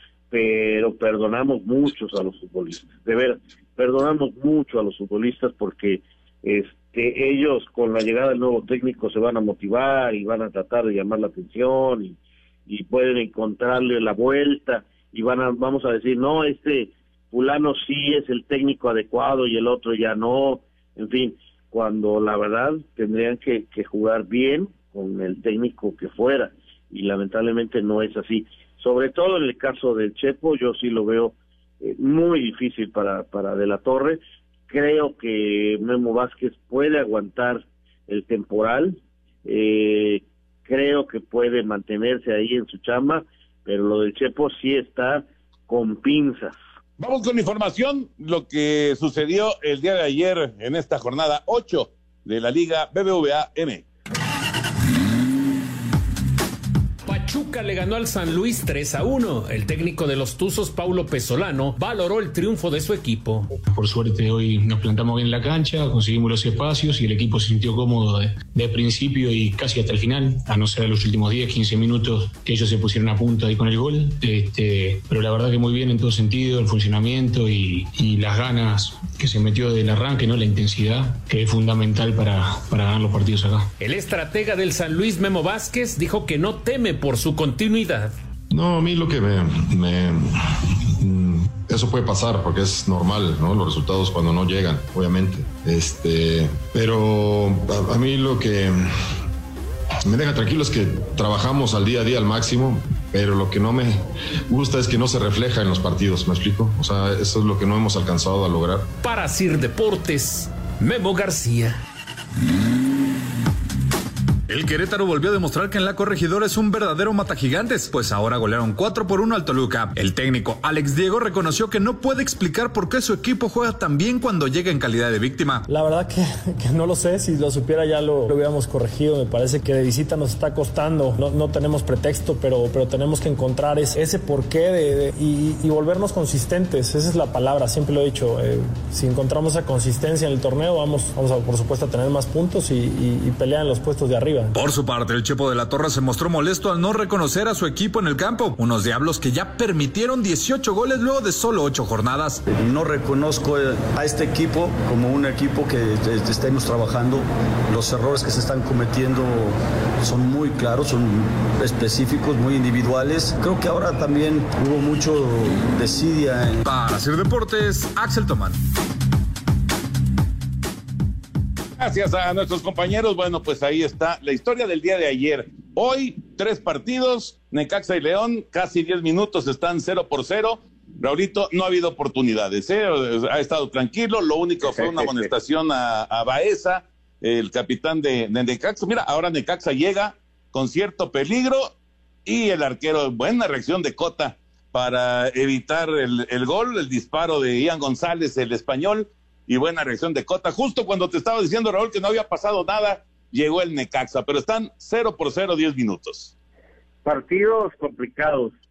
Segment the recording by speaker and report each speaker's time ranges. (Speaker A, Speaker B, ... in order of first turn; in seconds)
Speaker A: 0.3-46.6, 184.7-185.2, 207.1-208.5
Speaker B: 47.0-53.9, 171.8-191.7, 192.3-206.3
Speaker C: 57.0-63.5, 83.8-88.1, 109.0-111.8
Speaker D: 63.7-83.7
Speaker E: 88.5-99.2, 100.1-108.9
Speaker F: 114.5-125.7, 144.5-152.4, 166.6-168.6
Speaker G: 125.7-144.5
Speaker H: 152.5-166.6